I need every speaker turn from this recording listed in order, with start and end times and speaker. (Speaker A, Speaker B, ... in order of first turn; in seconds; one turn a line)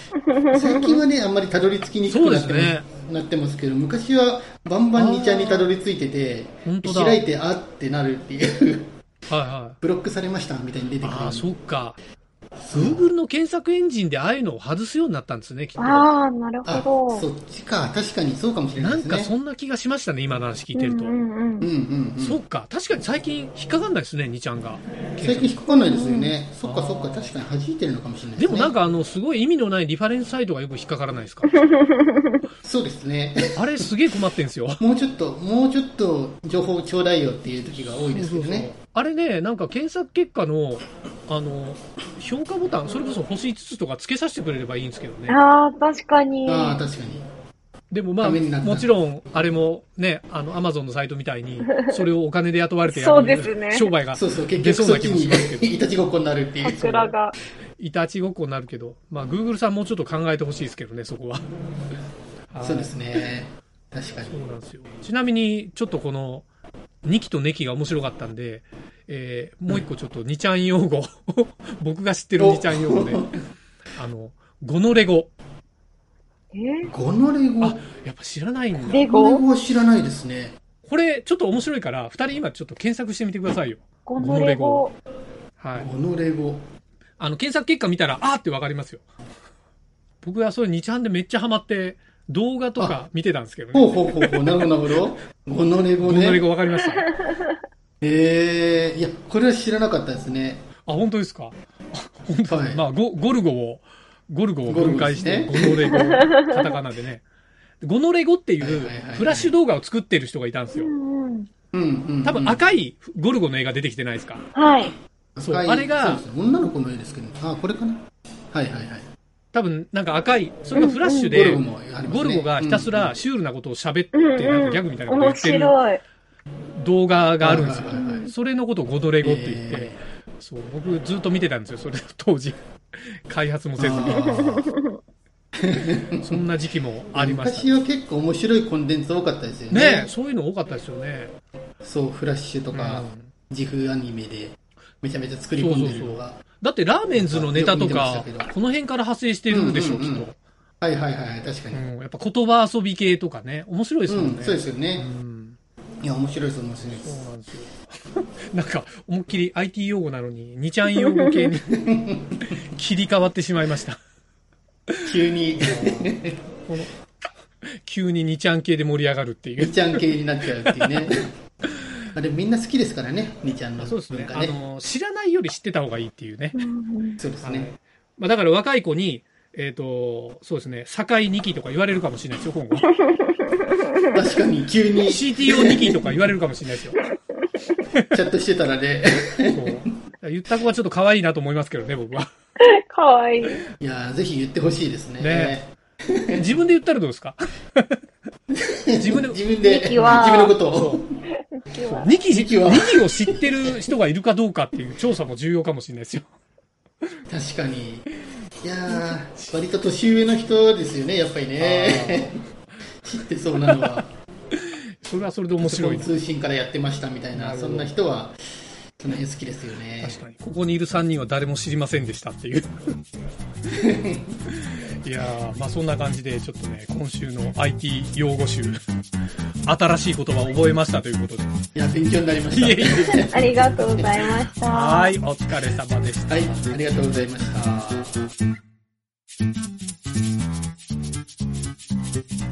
Speaker A: 0.5-1.0
Speaker B: 0.5-8.9
Speaker C: 2.0-2.9
Speaker C: 5.0-5.8
Speaker C: 6.7-7.2
Speaker C: 9.3-9.8
Speaker B: 9.8-11.5
Speaker C: 11.0-12.0
Speaker B: 12.7-13.1
Speaker C: 12.7-16.1
Speaker A: 15.8-17.3
Speaker B: 16.6-19.3
Speaker C: 18.8-21.1
Speaker A: 20.8-21.7
Speaker B: 21.6-22.4
Speaker C: 22.2-25.6
Speaker B: 25.2-28.7
Speaker A: 25.8-26.3
Speaker C: 26.6-27.4
Speaker C: 28.4-31.7
Speaker A: 31.9-32.3
Speaker B: 32.6-33.7
Speaker C: 33.5-34.8
Speaker B: 34.8-38.7
Speaker C: 37.8-45.4
Speaker A: 45.3-46.8
Speaker B: 46.5-47.2
Speaker C: 47.9-55.8
Speaker B: 48.2-48.9
Speaker A: 52.9-53.9
Speaker B: 54.1-57.0
Speaker A: 56.6-57.3
Speaker C: 56.8-57.1
Speaker C: 57.8-61.5
Speaker C: 62.5-63.2
Speaker B: 62.6-64.4
Speaker C: 64.2-66.5
Speaker C: 67.0-73.3
Speaker B: 72.4-73.3
Speaker C: 74.0-75.3
Speaker A: 76.5-76.9
Speaker B: 76.9-77.8
Speaker C: 77.6-79.0
Speaker A: 78.8-79.4
Speaker B: 79.0-80.6
Speaker C: 80.8-84.9
Speaker A: 84.1-85.0
Speaker C: 85.6-85.9
Speaker B: 85.7-86.6
Speaker C: 87.2-89.1
Speaker C: 90.2-94.7
Speaker B: 93.7-96.5
Speaker C: 96.0-97.1
Speaker B: 98.0-100.7
Speaker C: 100.8-107.2
Speaker B: 102.5-102.8
Speaker B: 104.7-106.0
Speaker A: 105.9-106.6
Speaker C: 107.8-110.9
Speaker B: 108.6-109.5
Speaker A: 110.8-111.5
Speaker B: 111.7-112.7
Speaker C: 112.2-114.5
Speaker A: 114.5-115.0
Speaker B: 115.4-119.0
Speaker C: 115.4-116.3
Speaker C: 119.5-125.8
Speaker A: 120.8-121.4
Speaker B: 121.3-123.1
Speaker A: 124.1-126.0
Speaker C: 126.7-134.7
Speaker B: 127.4-128.1
Speaker A: 128.0-128.3
Speaker B: 129.2-130.0
Speaker B: 133.8-134.6
Speaker A: 134.4-134.9
Speaker B: 135.6-136.4
Speaker C: 136.2-137.8
Speaker B: 137.1-140.1
Speaker C: 139.7-141.3
Speaker B: 141.8-146.4
Speaker C: 142.7-143.3
Speaker C: 145.6-150.4
Speaker B: 147.2-148.5
Speaker B: 149.5-150.3
Speaker B: 150.8-151.8
Speaker C: 151.7-155.6
Speaker B: 154.1-155.1
Speaker B: 156.0-157.2
Speaker C: 157.0-161.8
Speaker B: 161.7-162.4
Speaker C: 162.4-164.0
Speaker C: 164.9-167.0
Speaker B: 165.1-166.4
Speaker C: 167.8-170.1
Speaker B: 169.6-171.3
Speaker C: 170.6-171.0
Speaker B: 172.2-174.6
Speaker C: 173.8-176.7
Speaker A: 176.5-177.2
Speaker B: 177.2-177.7
Speaker C: 177.4-183.0
Speaker A: 183.1-184.1
Speaker B: 184.1-186.2
Speaker C: 185.1-187.0
Speaker C: 187.9-188.2
Speaker B: 188.1-189.9
Speaker C: 189.5-192.3
Speaker A: 192.6-193.7
Speaker B: 193.8-196.5
Speaker C: 195.2-195.6
Speaker C: 196.3-198.0
Speaker B: 198.6-201.0
Speaker C: 199.0-199.4
Speaker A: 199.6-200.6
Speaker C: 200.0-201.0
Speaker A: 201.6-202.1
Speaker C: 201.8-206.3
Speaker B: 202.3-203.2
Speaker B: 207.3-208.1
Speaker B: 208.6-212.3
Speaker C: 208.9-209.5
Speaker C: 211.6-212.4
Speaker B: 213.1-214.1
Speaker C: 214.5-216.1
Speaker B: 215.6-218.4
Speaker C: 217.3-217.9
Speaker B: 219.0-220.2
Speaker C: 220.0-223.0
Speaker B: 223.8-224.3
Speaker C: 224.5-228.8
Speaker C: 229.7-231.6
Speaker B: 231.8-234.2
Speaker C: 232.5-233.3
Speaker A: 233.1-235.1
Speaker C: 234.7-236.7
Speaker B: 236.3-238.2